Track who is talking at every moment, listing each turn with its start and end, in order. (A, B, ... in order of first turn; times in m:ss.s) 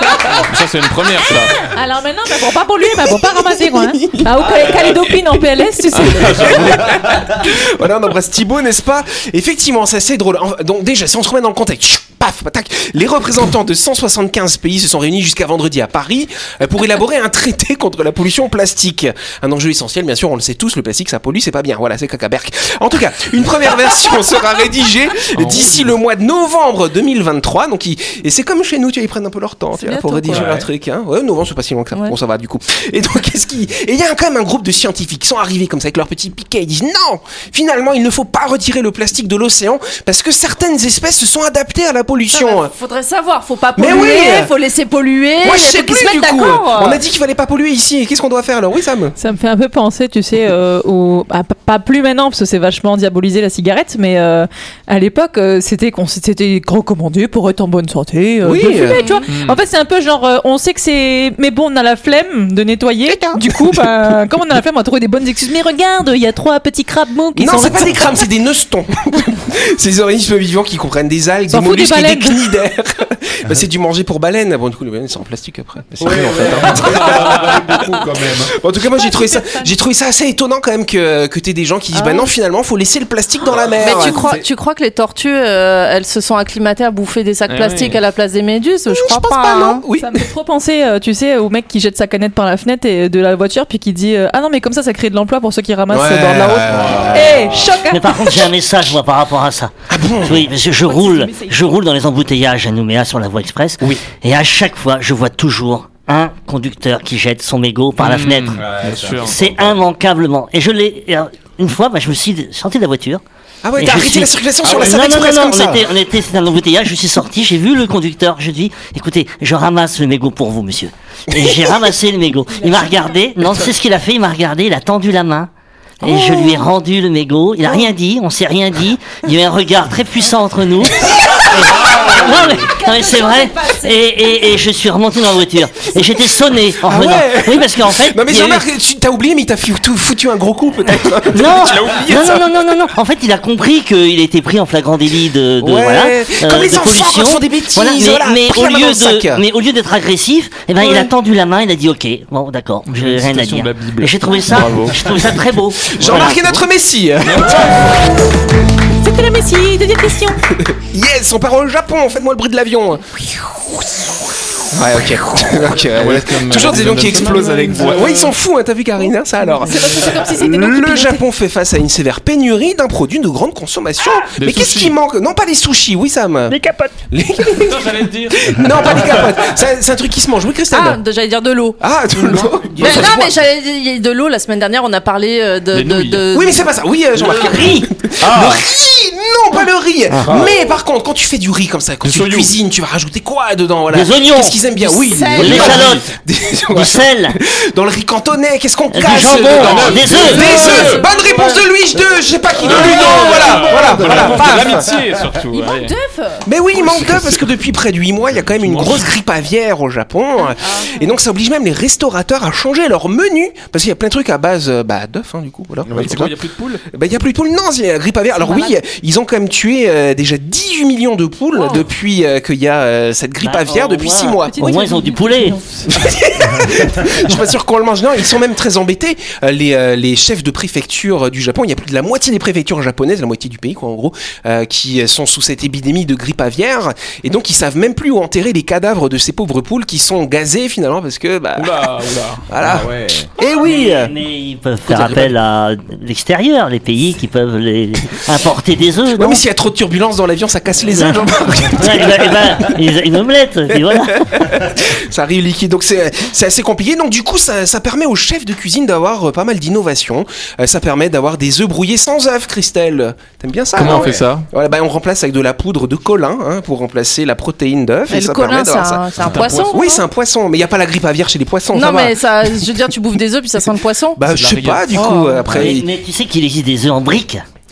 0:00.4-0:01.6 A
0:01.6-0:06.8 B
0:03.0-0:04.3 C
0:05.9-0:06.4 A
0:06.2-0:42.7 C
0:25.3-0:26.0 A
0:29.8-0:30.4 D
0:30.3-0:30.7 E
0:42.3-0:47.0 D
0:43.8-0:44.5 C
0:45.4-0:49.2 C
0:49.2-1:08.2 B
0:58.4-0:59.0 C
0:58.7-0:59.2 D
0:59.3-0:59.6 A
1:03.1-1:03.5 C
1:07.3-1:17.9 C
1:11.5-1:12.4 B
1:16.0-1:18.5 E
1:18.4-1:24.3 C
1:21.9-1:22.3 D
1:23.5-1:24.4 E
1:23.8-1:29.8 D
1:27.5-1:28.0 A
1:28.9-1:30.2 C
1:29.9-1:38.5 B
1:35.9-1:37.4 C
1:36.9-1:37.5 E
1:37.9-1:48.6 F
1:39.9-1:40.5 C
1:40.8-1:41.6 B
1:48.0-1:49.4 A
1:48.6-1:49.6 E
1:49.2-1:53.2 F
1:53.6-1:55.9 C
1:53.8-2:05.5 F
2:02.6-2:03.1 B
2:06.0-2:06.6 C
2:06.0-2:18.6 F
2:11.1-2:11.4 C
2:11.7-2:14.4 B
2:16.8-2:22.5 C
2:21.3-2:36.4 F
2:25.6-2:29.4 C
2:32.9-2:35.2 A
2:35.9-2:37.8 C
2:36.0-2:36.6 A
2:37.2-2:37.9 A
2:39.0-2:40.4 B
2:40.6-2:43.6 C
2:44.7-2:56.6 C
2:45.9-2:48.3 A
2:49.4-2:51.2 B
2:54.4-2:55.0 A
2:57.1-3:01.0 C
2:57.6-2:59.1 A
3:00.7-3:01.8 D
3:01.8-3:03.3 C
3:02.8-3:06.7 D
3:05.7-3:06.2 A
3:06.3-3:24.9 C
3:07.2-3:07.9 F
3:08.2-3:08.6 E
3:10.1-3:10.4 F
3:12.0-3:12.5 A
3:13.9-3:14.6 F
3:14.8-3:15.7 D
3:15.3-3:16.0 F
3:15.4-3:16.0 A
3:16.7-3:17.4 F
3:18.9-3:20.5 F
3:19.2-3:21.1 A
3:20.4-3:21.6 D
3:22.6-3:25.9 A
3:22.7-3:25.2 E
3:25.5-3:26.4 D
3:26.4-3:36.3 C
3:26.7-3:27.5 A
3:28.5-3:29.1 A
3:30.4-3:31.1 D
3:35.9-3:36.2 E
3:35.9-3:36.8 A
3:36.9-3:44.6 C
3:38.4-3:38.7 D
3:41.5-3:41.8 D
3:43.4-3:45.6 F
3:44.4-3:45.9 B
3:45.9-4:01.8 C
4:01.6-4:02.4 A
4:02.5-4:04.1 C
4:02.6-4:03.3 E
4:03.5-4:09.4 F
4:04.9-4:05.3 C
4:09.2-4:12.8 C
4:10.9-4:14.3 F
4:13.7-4:32.7 C
4:23.7-4:24.5 A
4:23.9-4:24.2 E
4:28.1-4:30.0 D
4:29.2-4:29.8 A
4:31.7-4:34.2 D
4:34.2-4:35.9 C
4:34.2-4:35.1 A
4:34.9-4:35.5 D
4:35.5-4:37.4 F